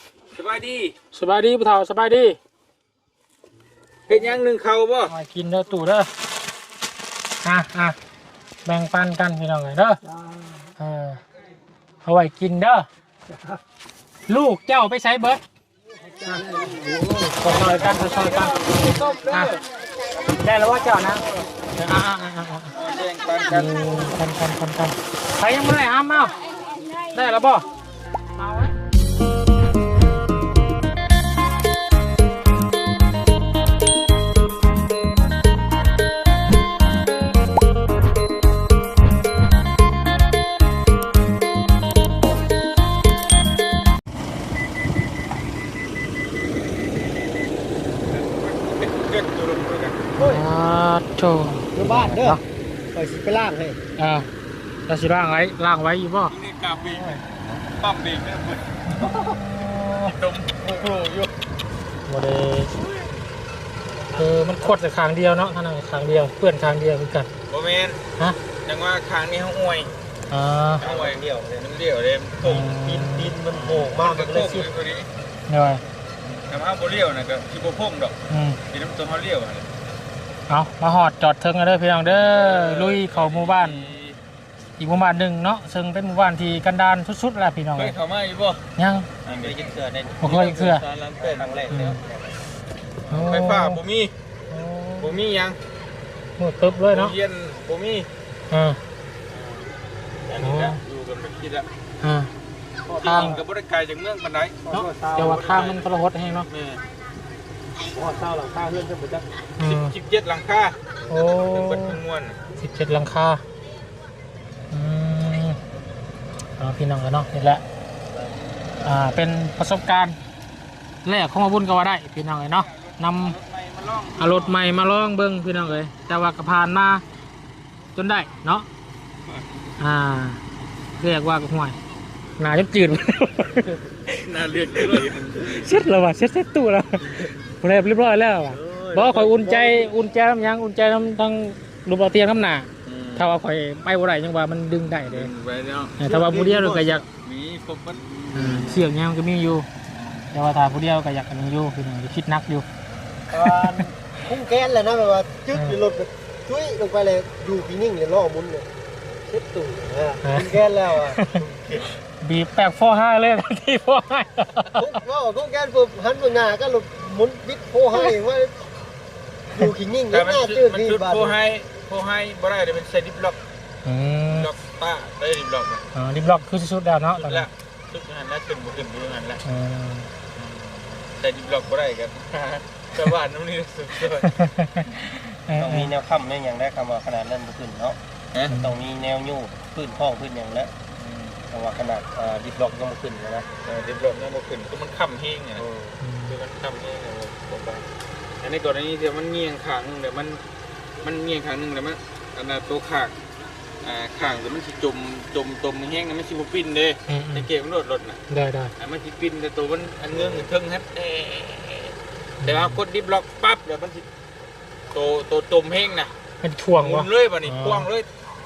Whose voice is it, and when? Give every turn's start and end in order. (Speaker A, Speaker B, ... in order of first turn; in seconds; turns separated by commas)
Speaker A: 0.3-0.9, Speaker B: 1.1-2.4, Speaker A: 4.1-5.1, Speaker B: 5.1-6.1, Speaker B: 7.4-8.0, Speaker B: 8.7-10.0, Speaker B: 10.8-11.2, Speaker B: 12.0-12.9, Speaker B: 14.3-15.4, Speaker C: 16.2-17.4, Speaker B: 17.3-19.5, Speaker A: 17.4-19.6, Speaker B: 20.4-21.2, Speaker B: 21.8-22.8, Speaker A: 22.8-24.1, Speaker B: 23.5-26.4, Speaker B: 27.1-27.7, Speaker B: 28.4-28.7, Speaker A: 48.1-50.1, Speaker C: 50.2-50.5, Speaker B: 50.2-52.4, Speaker C: 51.7-53.8, Speaker B: 54.0-54.3, Speaker B: 54.9-56.4, Speaker A: 56.3-58.7, Speaker B: 59.1-60.2, Speaker A: 60.0-61.3, Speaker B: 62.0-62.8, Speaker C: 64.0-64.8, Speaker B: 64.2-67.3, Speaker A: 67.5-68.0, Speaker A: 68.6-69.9, Speaker B: 70.3-70.8, Speaker A: 70.8-72.7, Speaker C: 70.8-71.7, Speaker B: 72.4-73.4, Speaker C: 72.7-74.7, Speaker A: 73.5-75.1, Speaker B: 75.5-75.8, Speaker A: 76.2-78.2, Speaker B: 78.3-78.6, Speaker A: 78.7-79.7, Speaker B: 80.5-83.9, Speaker A: 82.0-84.2, Speaker B: 84.8-88.0, Speaker A: 87.8-88.6, Speaker B: 88.8-89.1, Speaker A: 89.2-89.6, Speaker C: 89.3-90.3, Speaker B: 90.2-90.8, Speaker A: 90.2-92.0, Speaker C: 91.2-92.4, Speaker B: 91.7-92.0, Speaker A: 93.1-94.1, Speaker B: 93.1-93.8, Speaker B: 94.5-95.2, Speaker A: 95.0-95.6, Speaker B: 96.4-97.2, Speaker A: 96.8-98.1, Speaker B: 98.5-98.8, Speaker A: 99.3-99.7, Speaker A: 100.3-101.7, Speaker B: 100.4-100.8, Speaker B: 102.0-102.3, Speaker A: 103.0-105.9, Speaker B: 103.0-103.4, Speaker C: 104.7-105.4, Speaker B: 104.7-106.5, Speaker A: 106.5-106.8, Speaker C: 107.9-109.3, Speaker B: 109.6-109.9, Speaker A: 109.6-110.8, Speaker B: 111.1-112.0, Speaker A: 111.3-112.4, Speaker B: 112.6-113.4, Speaker B: 114.7-115.6, Speaker B: 116.6-117.6, Speaker B: 118.8-120.2, Speaker B: 121.0-123.4, Speaker A: 122.7-124.7, Speaker B: 124.2-127.0, Speaker B: 128.0-128.7, Speaker B: 129.8-130.4, Speaker B: 131.0-131.8, Speaker B: 132.4-133.7, Speaker A: 134.1-135.7, Speaker B: 134.8-145.3, Speaker C: 138.5-140.0, Speaker A: 142.8-143.4, Speaker A: 145.1-146.0, Speaker B: 146.0-147.1, Speaker C: 146.0-147.1, Speaker A: 147.2-148.9, Speaker B: 148.3-149.7, Speaker B: 150.3-152.7, Speaker C: 153.3-158.7, Speaker B: 153.4-153.8, Speaker C: 159.3-161.9, Speaker B: 160.2-160.6, Speaker B: 161.1-161.4, Speaker B: 162.2-164.9, Speaker C: 164.7-168.8, Speaker C: 169.5-171.4, Speaker A: 170.1-173.4, Speaker B: 173.8-174.5, Speaker A: 174.3-175.9, Speaker B: 175.9-177.5, Speaker A: 177.2-179.4, Speaker B: 179.4-180.1, Speaker A: 180.3-184.4, Speaker B: 184.2-185.9, Speaker C: 185.6-188.0, Speaker C: 188.5-190.7, Speaker A: 191.0-191.4, Speaker C: 191.5-193.5, Speaker A: 193.7-197.9, Speaker B: 196.0-196.4, Speaker A: 198.4-200.4, Speaker A: 201.0-203.1, Speaker A: 203.8-208.2, Speaker B: 207.1-207.5, Speaker B: 208.3-208.7, Speaker A: 208.8-214.1, Speaker B: 212.4-212.8, Speaker A: 214.9-216.2, Speaker B: 216.4-217.9, Speaker A: 216.7-218.1